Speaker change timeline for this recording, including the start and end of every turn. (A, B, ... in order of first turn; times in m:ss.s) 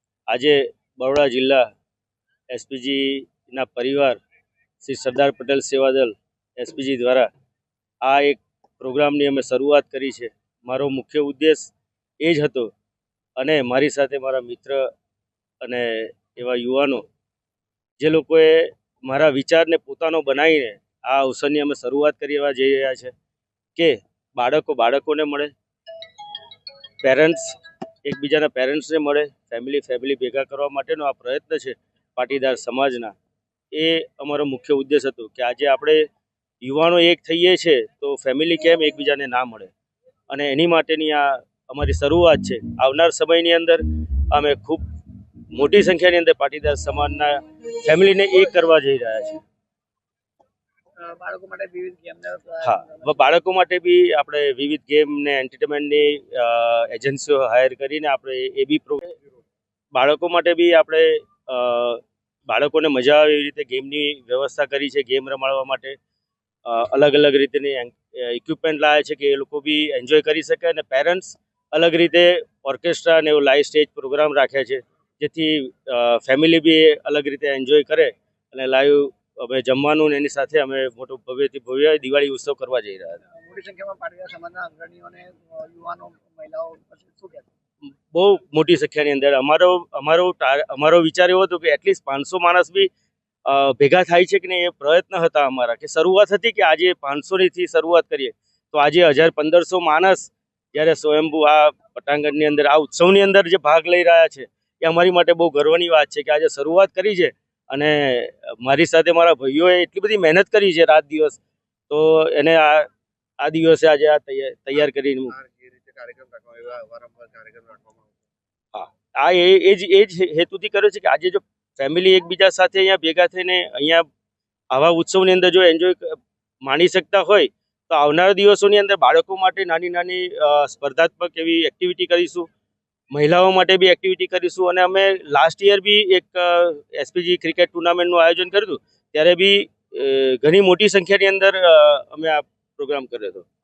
0:00.3-0:01.6 A
0:02.5-0:04.2 A
0:04.8-0:07.3 A
0:08.0-0:12.7 A
0:13.4-0:14.8 A
0:15.6-0:17.0 A
0:18.0-0:23.1 A
0:23.8-0:25.5 A
0:27.0-0:27.5 A
0:28.0-0:33.1 A
0:33.7-0:36.0 A
0:36.6-0:39.7 A
0:40.3-0:44.8 A
0:45.5-0:49.4 A
0:51.0-0:53.1 B
0:52.6-0:59.2 A
0:59.9-1:06.0 A
1:06.6-1:23.2 A
1:23.3-1:27.5 B
1:28.1-1:32.9 A
1:33.4-1:51.4 A
1:51.9-1:52.9 A
1:53.4-1:55.3 A
1:55.3-1:58.1 C
1:58.7-2:04.0 A
2:04.7-2:12.5 A
2:13.1-2:23.4 A